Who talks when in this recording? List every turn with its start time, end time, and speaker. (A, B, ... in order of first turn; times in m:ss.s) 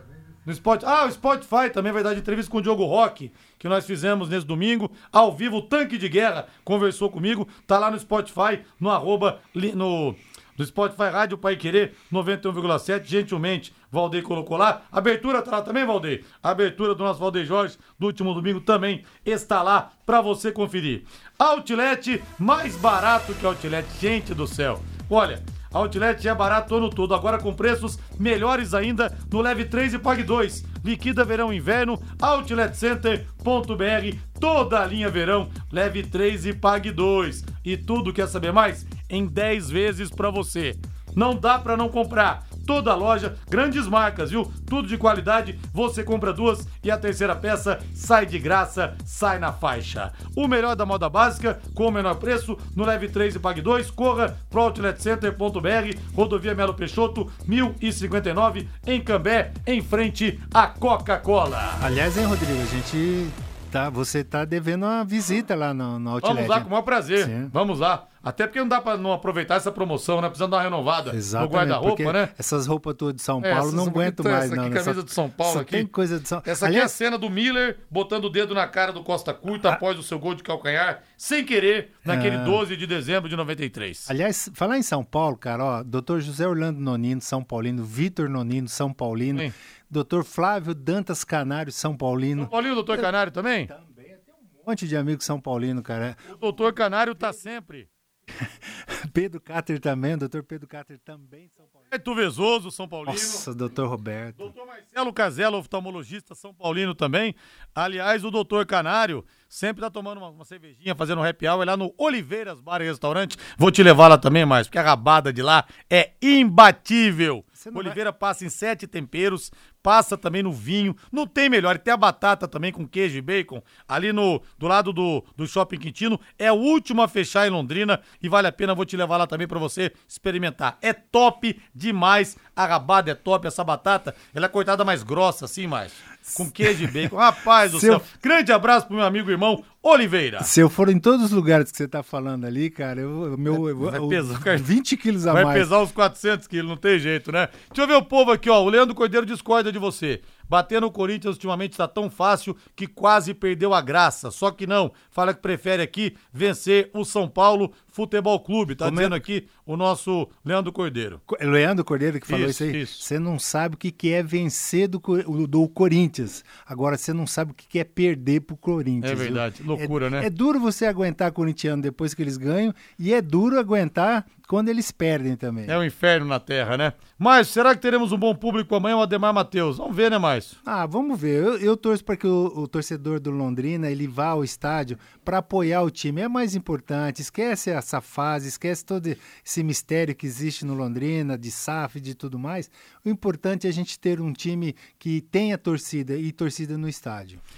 0:00.4-1:01.8 A
1:01.8-1:07.5 B
1:06.2-1:12.3 A
1:11.1-1:16.9 B
1:13.4-1:15.9 A
1:16.4-1:24.1 A
1:22.0-1:22.6 B
1:24.0-1:33.1 B
1:32.4-1:33.7 A
1:33.7-1:37.4 B
1:36.3-1:37.9 A
1:38.9-1:41.9 B
1:41.9-1:43.4 A
1:43.0-1:44.5 B
1:44.4-2:20.5 A
1:57.6-1:58.0 B
2:17.7-2:18.0 B
2:20.4-2:25.7 B
2:23.8-2:24.6 A
2:25.3-2:41.2 A
2:38.8-2:39.2 B
2:41.3-2:55.8 B
2:42.3-2:43.0 A
2:49.0-2:50.3 A
2:55.7-3:00.6 A
3:00.6-3:17.4 B